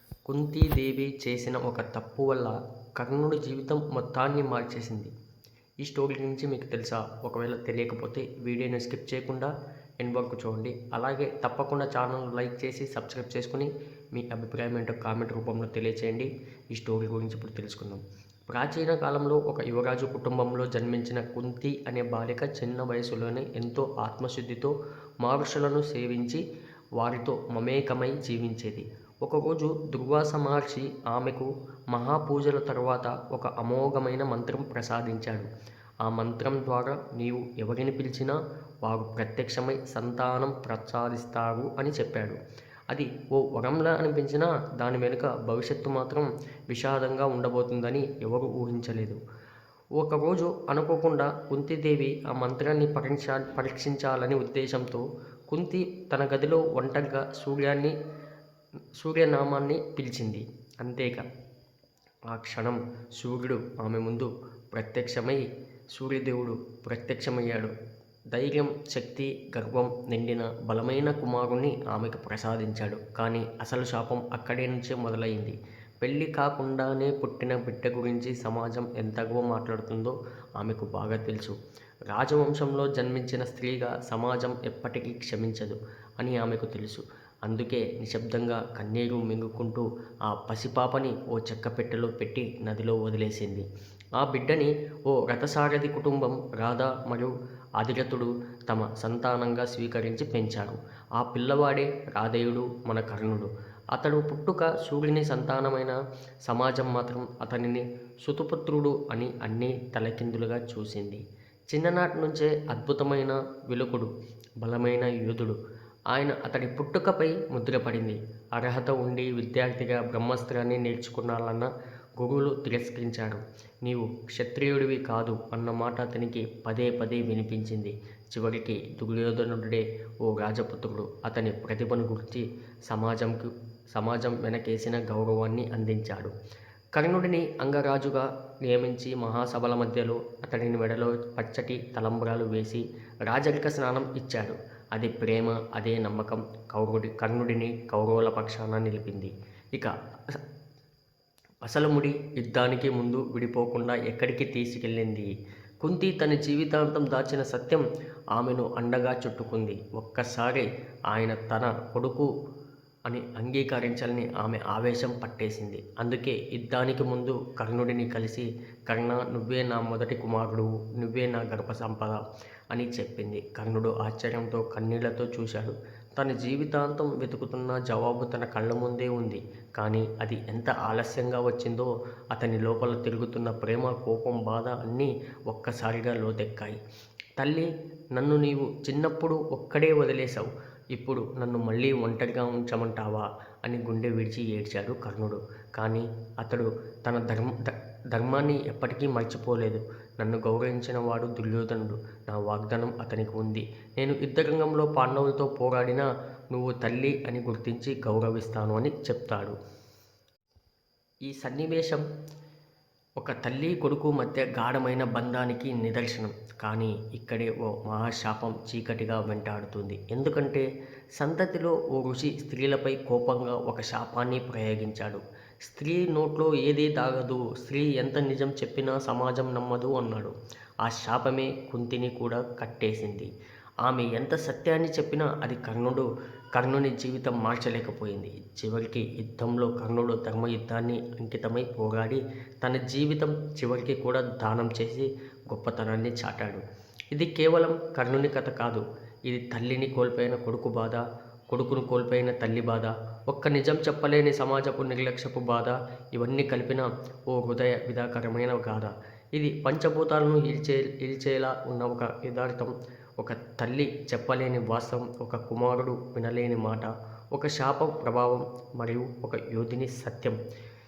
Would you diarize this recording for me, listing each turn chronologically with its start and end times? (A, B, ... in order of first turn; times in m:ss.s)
0:00.3-0:05.1 A
0:05.8-0:26.4 A
0:27.0-0:35.5 A
0:36.0-0:42.4 A
0:42.9-0:49.2 A
0:50.0-0:57.9 A
0:59.0-1:01.2 A
1:02.3-1:07.7 A
1:08.3-1:21.6 A
1:22.1-1:33.6 A
1:34.2-1:54.1 A
1:54.6-1:55.6 A
1:56.1-2:16.3 A
2:17.0-2:30.4 A
2:31.6-2:35.3 A
2:35.8-2:37.8 A
2:38.4-2:42.3 A
2:43.1-2:52.2 A
2:52.7-3:06.8 A
3:07.4-3:29.6 A
3:31.2-3:32.0 A
3:33.2-3:40.6 A
3:41.2-3:50.3 A
3:50.8-3:53.3 A
3:53.8-4:30.4 A